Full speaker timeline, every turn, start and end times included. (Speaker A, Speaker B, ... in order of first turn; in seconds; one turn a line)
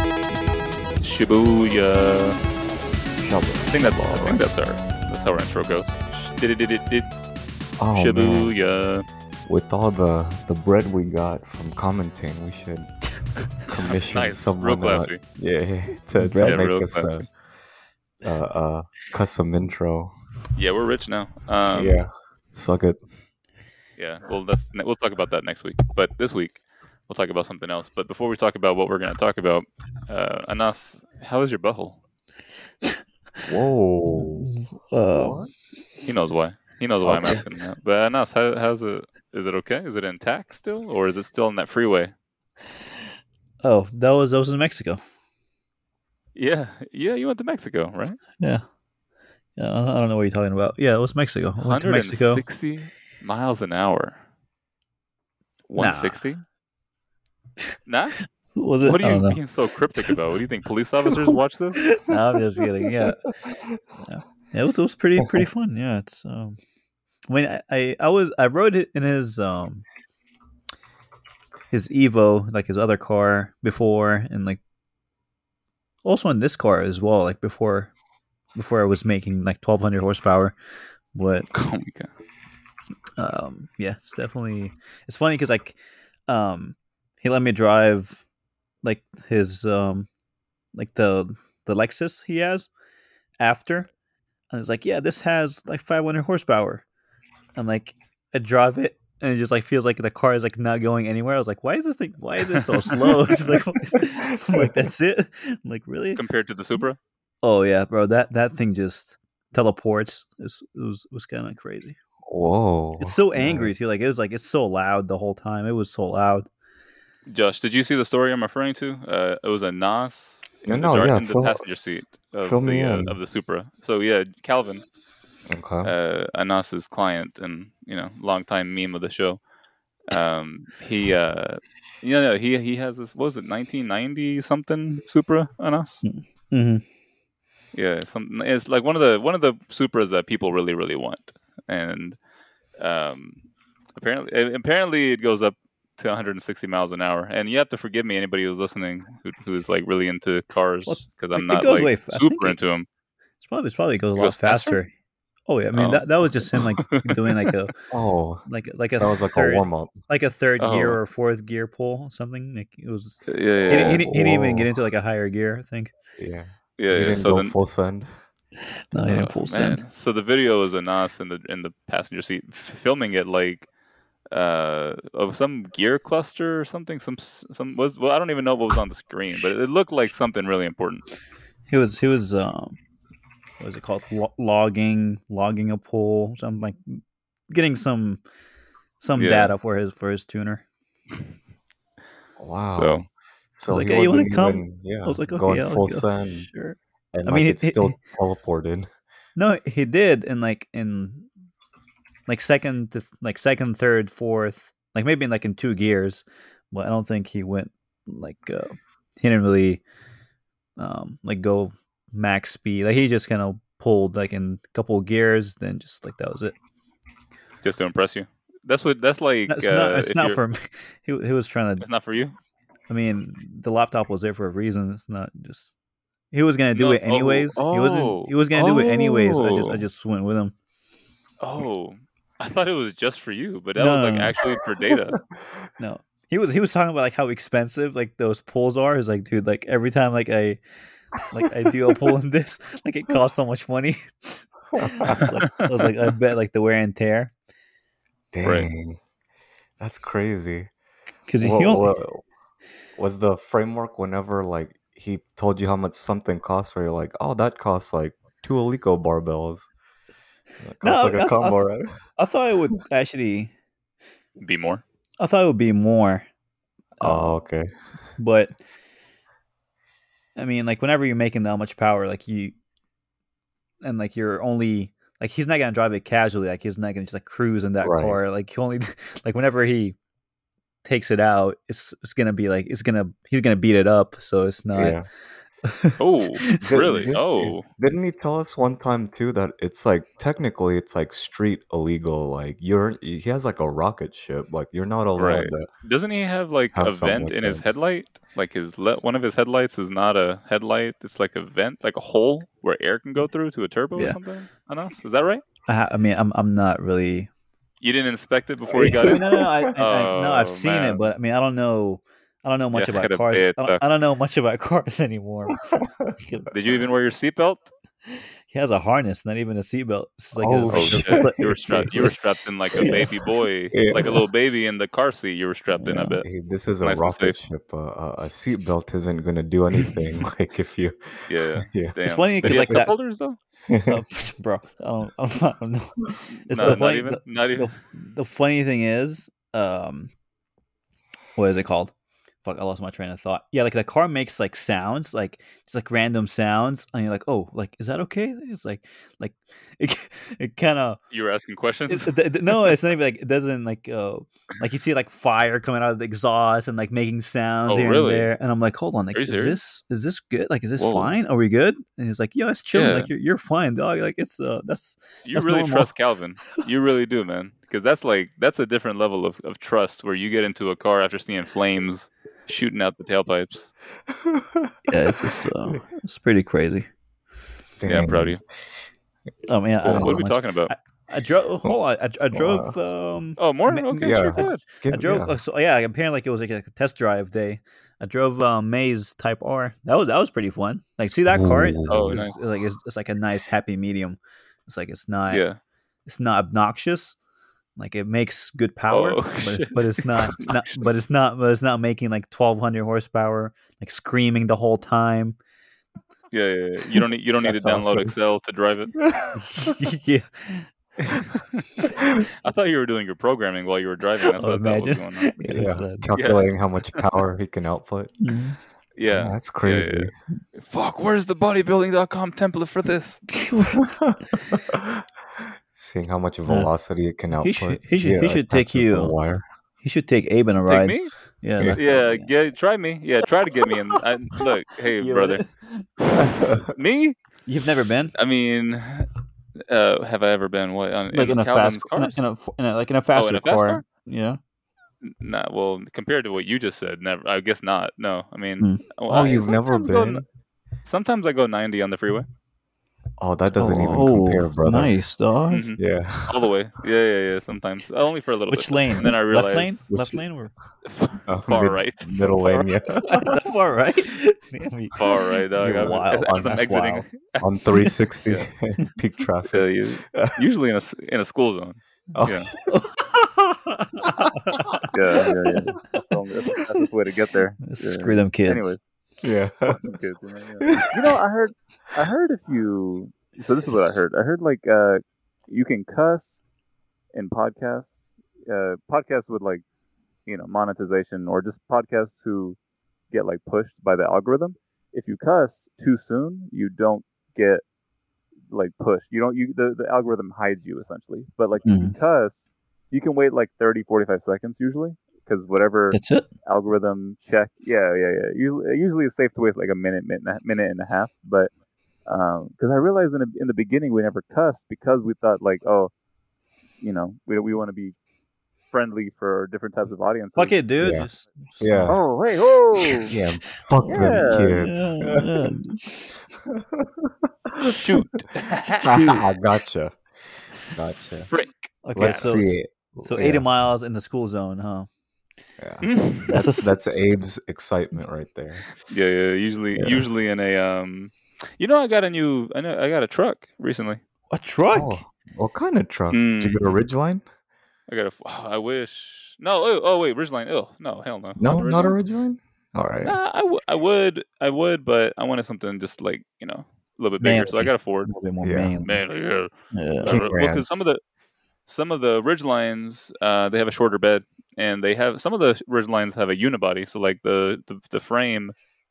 Speaker A: 1.0-2.4
Speaker B: 3.2-4.5
Speaker A: 3.7-7.1
Speaker B: 7.8-8.5
Speaker A: 8.0-9.1
Speaker B: 9.5-13.0
Speaker B: 13.5-17.3
Speaker A: 13.8-15.2
Speaker C: 16.2-16.6
Speaker A: 16.4-17.3
Speaker B: 18.2-20.1
Speaker A: 20.6-22.0
Speaker B: 21.7-23.0
Speaker A: 24.0-32.0
Speaker B: 33.5-34.5
Speaker C: 34.4-35.5
Speaker B: 35.1-35.5
Speaker A: 36.0-42.1
Speaker B: 37.0-37.5
Speaker C: 43.6-45.0
Speaker A: 46.4-48.2
Speaker C: 48.4-48.6
Speaker C: 49.6-52.4
Speaker A: 51.6-54.2
Speaker A: 55.7-56.4
Speaker C: 55.8-56.2
Speaker A: 57.9-58.2
Speaker C: 58.2-59.4
Speaker A: 58.8-61.9
Speaker C: 62.0-63.3
Speaker C: 64.0-66.6
Speaker C: 67.3-69.8
Speaker C: 71.7-74.6
Speaker C: 76.0-77.9
Speaker C: 78.5-80.6
Speaker C: 81.1-81.5
Speaker A: 81.5-82.1
Speaker C: 83.2-85.8
Speaker C: 86.3-88.2
Speaker C: 88.8-90.1
Speaker C: 90.7-92.7
Speaker C: 93.4-93.9
Speaker C: 94.5-96.9
Speaker C: 97.6-106.2
Speaker A: 102.5-102.8
Speaker A: 106.2-107.0
Speaker C: 107.4-112.0
Speaker B: 112.3-113.7
Speaker C: 113.0-116.5
Speaker A: 117.3-124.8
Speaker B: 120.6-121.6
Speaker B: 122.5-123.2
Speaker B: 125.5-125.9
Speaker A: 125.8-129.4
Speaker A: 130.1-136.0
Speaker C: 136.0-136.8
Speaker A: 137.7-142.2
Speaker A: 142.8-143.4
Speaker A: 144.0-152.9
Speaker C: 150.9-152.6
Speaker C: 153.4-154.9
Speaker A: 154.2-154.8
Speaker C: 155.5-157.8
Speaker A: 155.8-157.5
Speaker B: 157.9-158.4
Speaker C: 158.5-165.9
Speaker B: 159.0-159.9
Speaker A: 160.6-161.0
Speaker A: 163.3-164.0
Speaker B: 163.7-164.7
Speaker B: 166.2-168.1
Speaker A: 166.8-167.6
Speaker C: 168.9-169.8
Speaker A: 169.0-173.7
Speaker A: 174.3-181.1
Speaker C: 181.7-182.8
Speaker C: 183.6-188.2
Speaker C: 189.0-190.7
Speaker A: 189.2-189.5
Speaker B: 192.4-196.5
Speaker A: 192.8-193.1
Speaker C: 193.7-198.0
Speaker B: 197.1-198.9
Speaker C: 199.4-201.3
Speaker C: 202.3-209.8
Speaker C: 210.8-216.6
Speaker A: 217.6-220.4
Speaker C: 219.5-221.9
Speaker A: 221.8-222.4
Speaker C: 222.9-225.7
Speaker C: 226.3-230.6
Speaker A: 226.7-229.8
Speaker A: 231.4-235.2
Speaker C: 233.8-234.3
Speaker B: 234.4-235.6
Speaker C: 235.8-240.6
Speaker C: 241.3-247.3
Speaker B: 244.8-245.2
Speaker B: 248.3-249.0
Speaker A: 248.4-248.7
Speaker B: 249.8-250.7
Speaker C: 251.3-251.9
Speaker B: 251.4-252.3
Speaker B: 253.0-259.7
Speaker B: 260.6-262.0
Speaker C: 260.8-263.5
Speaker A: 264.4-264.8
Speaker C: 265.2-266.3
Speaker C: 267.0-267.4
Speaker B: 267.0-267.7
Speaker C: 268.2-268.6
Speaker C: 270.4-272.6
Speaker C: 273.8-280.0
Speaker B: 277.8-278.2
Speaker C: 280.8-285.0
Speaker B: 284.8-285.1
Speaker C: 285.7-286.6
Speaker A: 286.0-287.7
Speaker B: 286.6-295.7
Speaker A: 295.2-305.4
Speaker B: 296.7-297.6
Speaker C: 305.7-307.3
Speaker A: 307.8-311.0
Speaker C: 308.7-315.6
Speaker B: 308.7-309.7
Speaker A: 312.7-313.8
Speaker B: 315.7-316.2
Speaker C: 316.2-316.5
Speaker A: 316.5-317.7
Speaker C: 318.1-322.1
Speaker B: 320.4-322.1
Speaker A: 320.7-326.3
Speaker C: 322.7-323.2
Speaker B: 322.8-323.1
Speaker B: 323.7-324.2
Speaker C: 325.8-326.2
Speaker B: 326.2-332.9
Speaker A: 326.8-327.4
Speaker A: 331.3-333.4
Speaker C: 332.1-332.9
Speaker B: 333.7-334.0
Speaker C: 333.9-340.1
Speaker A: 336.4-337.8
Speaker C: 341.4-351.0
Speaker A: 351.1-352.8
Speaker C: 351.9-365.9
Speaker A: 357.7-358.3
Speaker A: 359.1-359.6
Speaker A: 360.8-361.2
Speaker A: 362.7-363.1
Speaker A: 365.2-373.7
Speaker B: 374.1-374.7
Speaker C: 374.9-376.9
Speaker B: 377.8-378.4
Speaker A: 377.9-378.4
Speaker C: 379.5-395.4
Speaker A: 379.8-380.7
Speaker B: 379.9-380.2
Speaker B: 382.3-382.7
Speaker A: 383.4-384.6
Speaker B: 384.0-385.3
Speaker B: 391.3-392.3
Speaker A: 391.9-392.4
Speaker A: 395.3-395.6
Speaker C: 396.1-397.2
Speaker C: 397.8-405.4
Speaker A: 398.9-401.0
Speaker A: 406.3-409.0
Speaker B: 407.5-408.1
Speaker C: 407.6-407.8
Speaker B: 409.1-409.7
Speaker C: 409.4-410.7
Speaker A: 412.4-415.4
Speaker C: 414.4-416.1
Speaker B: 415.5-418.1
Speaker A: 416.1-417.0
Speaker C: 418.2-418.6
Speaker A: 419.0-423.3
Speaker B: 419.1-420.1
Speaker C: 423.3-423.8
Speaker B: 423.8-429.4
Speaker C: 427.4-429.1
Speaker C: 429.8-432.3
Speaker A: 430.7-431.1
Speaker A: 431.8-435.5
Speaker C: 435.0-436.3
Speaker A: 436.0-437.2
Speaker B: 436.2-436.7
Speaker C: 437.5-438.1
Speaker A: 438.1-439.1
Speaker A: 439.7-442.2
Speaker C: 441.1-444.4
Speaker A: 443.1-443.8
Speaker A: 445.0-450.2
Speaker B: 449.1-450.2
Speaker A: 450.9-452.3
Speaker B: 453.2-454.9
Speaker C: 453.6-455.7
Speaker A: 455.5-459.8
Speaker B: 455.8-456.4
Speaker C: 458.5-460.5
Speaker B: 459.9-460.2
Speaker A: 460.9-462.6
Speaker B: 461.3-463.4
Speaker C: 463.1-467.1
Speaker A: 465.0-467.5
Speaker B: 465.6-466.5
Speaker B: 467.4-470.4
Speaker A: 469.5-472.5
Speaker B: 472.1-472.5
Speaker C: 472.7-474.9
Speaker A: 474.9-478.8
Speaker C: 477.6-478.8
Speaker B: 479.2-479.8
Speaker A: 479.7-486.3
Speaker A: 487.1-487.9
Speaker A: 488.5-489.6
Speaker A: 490.3-492.6
Speaker A: 493.1-497.6
Speaker A: 498.5-502.4
Speaker C: 501.6-502.0
Speaker A: 502.9-511.5
Speaker C: 505.9-506.3
Speaker A: 512.1-515.9
Speaker A: 516.8-518.0
Speaker A: 518.7-520.6
Speaker C: 520.4-522.0
Speaker B: 520.8-521.1
Speaker B: 521.6-522.0
Speaker A: 521.9-523.1
Speaker C: 522.8-523.1
Speaker B: 523.1-525.2
Speaker C: 523.8-526.2
Speaker A: 523.9-524.6
Speaker B: 526.5-527.8
Speaker A: 527.6-529.2
Speaker B: 528.8-531.3
Speaker A: 531.3-532.4
Speaker C: 531.8-534.9
Speaker B: 532.0-533.5
Speaker B: 535.6-538.7
Speaker A: 535.8-536.4
Speaker C: 536.3-536.7
Speaker A: 538.8-544.0
Speaker B: 539.8-540.1
Speaker C: 544.3-545.0
Speaker B: 544.7-547.2
Speaker A: 546.1-546.7
Speaker A: 547.9-552.0
Speaker B: 551.4-553.2
Speaker A: 553.0-558.1
Speaker C: 557.2-559.0
Speaker B: 558.4-558.8
Speaker A: 558.8-561.0
Speaker C: 559.7-560.2
Speaker B: 560.0-560.7
Speaker A: 561.7-568.5